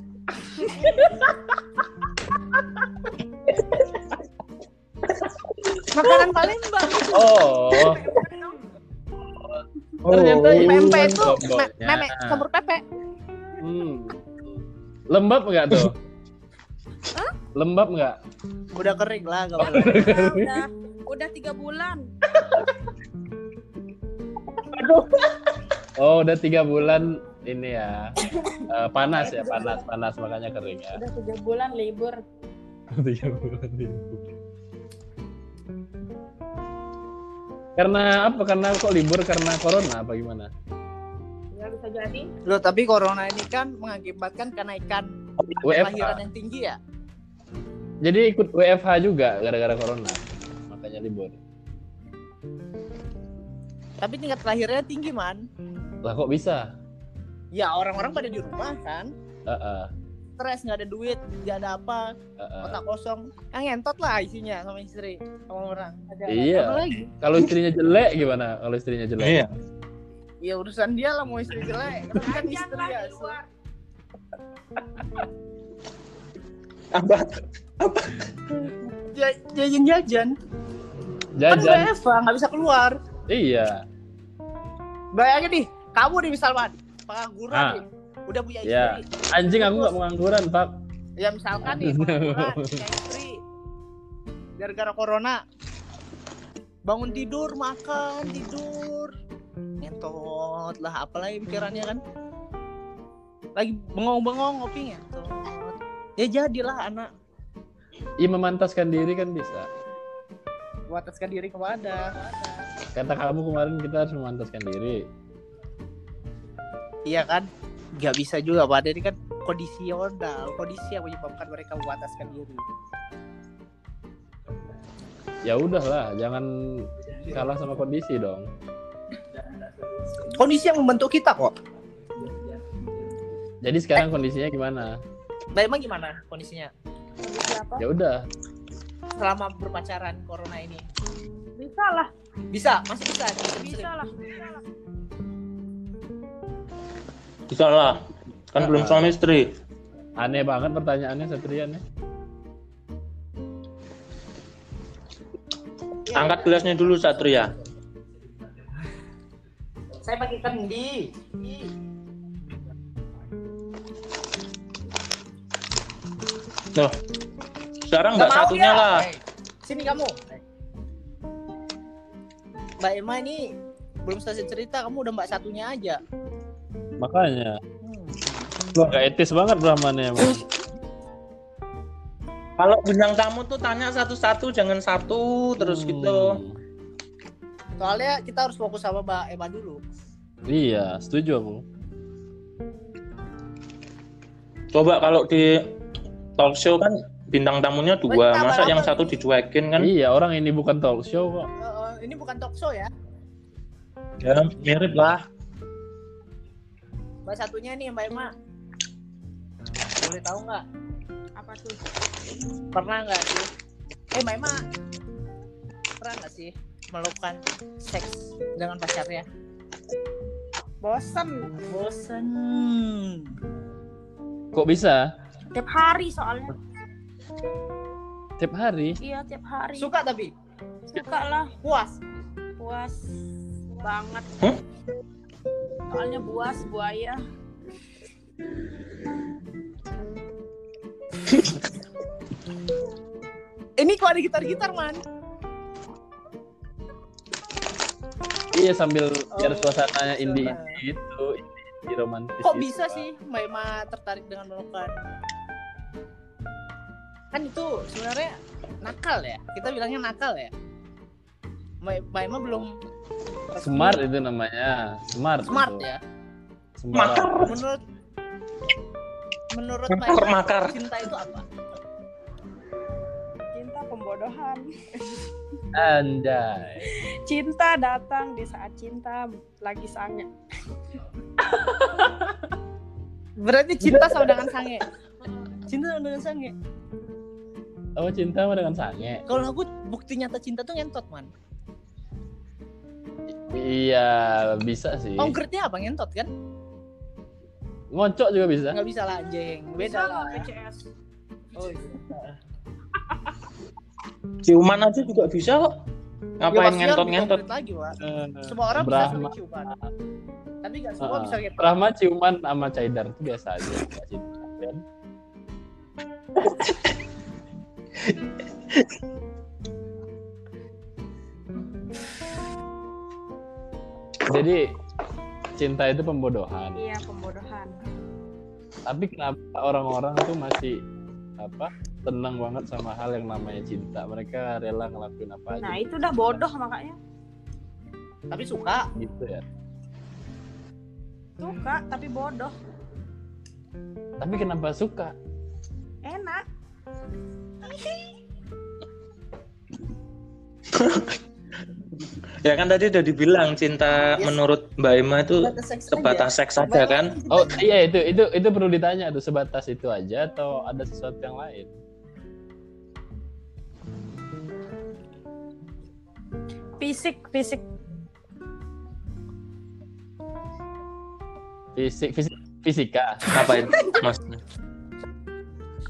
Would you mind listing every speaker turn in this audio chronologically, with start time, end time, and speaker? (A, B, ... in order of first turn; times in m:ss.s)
0:00.5-0:01.1 A
0:05.8-0:07.5 B
0:06.9-0:08.7 A
0:07.1-0:08.1 C
0:09.3-0:12.4 C
0:10.0-0:11.0 D
0:10.0-0:12.8 B
0:13.6-0:14.4 C
0:15.1-0:16.0 C
0:17.5-0:18.2 C
0:18.7-0:20.1 B
0:19.6-0:20.6 C
0:19.8-0:22.1 A
0:26.0-0:31.0 C
0:29.0-0:29.8 A
0:30.9-0:32.2 A
0:32.9-0:34.2 C
0:37.8-0:40.5 C
0:41.5-0:42.3 A
0:42.4-0:46.8 B
0:45.6-0:46.2 C
0:48.0-0:51.4 C
0:54.0-0:55.4 B
0:56.0-0:56.7 C
0:57.5-0:59.1 B
0:59.5-0:59.9 C
1:00.4-1:07.1 B
1:02.4-1:02.8 C
1:06.3-1:09.4 C
1:09.2-1:09.5 D
1:10.4-1:13.4 B
1:12.1-1:13.5 A
1:16.9-1:18.7 D
1:19.1-1:20.4 B
1:21.3-1:21.9 C
1:21.5-1:23.0 B
1:23.3-1:23.8 C
1:25.1-1:29.9 B
1:27.5-1:27.8 C
1:28.6-1:30.7 C
1:31.2-1:33.4 B
1:31.6-1:32.8 C
1:34.6-1:35.4 B
1:36.9-1:39.1 B
1:39.8-1:42.0 B
1:43.6-1:47.1 B
1:48.2-1:49.7 C
1:50.9-1:52.6 B
1:52.9-1:55.0 C
1:57.0-2:02.6 B
2:05.4-2:08.5 C
2:10.2-2:11.5 B
2:13.6-2:15.0 C
2:15.5-2:16.7 B
2:17.2-2:17.8 A
2:17.8-2:18.2 C
2:19.2-2:20.8 B
2:21.6-2:22.1 A
2:22.5-2:23.9 B
2:23.6-2:24.6 A
2:27.5-2:29.5 D
2:28.6-2:29.2 C
2:30.2-2:31.8 C
2:36.0-2:37.4 B
2:36.1-2:37.5 D
2:40.0-2:41.7 B
2:47.8-2:49.1 D
2:48.1-2:50.4 B
2:52.8-2:53.5 B
2:54.0-2:56.0 B
2:57.0-2:57.6 C
2:57.8-2:58.5 B
2:58.7-2:59.0 D
2:58.8-3:00.4 C
3:02.6-3:06.4 D
3:05.6-3:06.6 C
3:07.8-3:09.8 B
3:10.5-3:11.6 C
3:14.7-3:15.7 D
3:16.4-3:19.9 D
3:18.1-3:19.2 B
3:19.8-3:21.5 C
3:21.6-3:22.9 B
3:24.2-3:25.2 D
3:27.2-3:28.3 B
3:30.0-3:30.6 B
3:31.4-3:31.8 A
3:32.7-3:33.5 B
3:34.1-3:34.6 B
3:36.0-3:39.2 B
3:40.8-3:41.5 A
3:41.7-3:43.3 B
3:44.5-3:45.1 C
3:45.5-3:46.6 A
3:48.4-3:49.0 C
3:49.0-3:49.9 A
3:49.8-3:50.3 B
3:50.9-3:51.5 A
3:51.6-3:52.0 B
3:52.6-3:53.0 A
3:53.8-3:54.2 A
3:55.9-3:57.2 A
4:03.8-4:05.0 B
4:08.5-4:13.0 C
4:09.3-4:10.8 B
4:12.4-4:14.9 B
4:17.3-4:20.5 B
4:21.8-4:22.7 B
4:23.5-4:24.0 B
4:23.6-4:25.9 C
4:25.5-4:26.0 B
4:26.8-4:27.6 C
4:26.9-4:27.6 D
4:27.4-4:27.8 B
4:29.5-4:31.5 B
4:29.9-4:30.8 D
4:33.5-4:35.2 A
4:35.7-4:37.0 C
4:36.8-4:40.3 A
4:43.4-4:44.8 B
4:43.8-4:44.4 C
4:45.6-4:46.5 B
4:48.0-4:49.2 C
4:49.3-4:51.3 B
4:53.4-4:55.4 C
4:55.2-4:56.3 B
4:57.9-4:58.8 C
4:58.7-5:00.4 B
4:59.8-5:00.8 A
5:01.6-5:02.3 B
5:04.4-5:05.8 D
5:06.4-5:07.4 D
5:06.5-5:09.7 B
5:08.0-5:09.8 C
5:10.6-5:11.8 B
5:11.0-5:14.8 C
5:24.3-5:24.7 C
5:25.6-5:26.8 C
5:26.8-5:27.8 A
5:28.9-5:30.8 C
5:31.4-5:36.4 C
5:35.6-5:37.0 A
5:38.3-5:38.9 B
5:39.0-5:39.4 C
5:41.4-5:42.6 A
5:44.2-5:45.1 C
5:46.0-5:46.4 A
5:47.6-5:48.0 B
5:50.7-5:51.1 D
5:52.4-5:57.2 D
5:55.4-5:57.6 B
5:57.3-6:01.7 C
6:06.8-6:07.6 A
6:11.8-6:13.3 C
6:13.3-6:14.4 D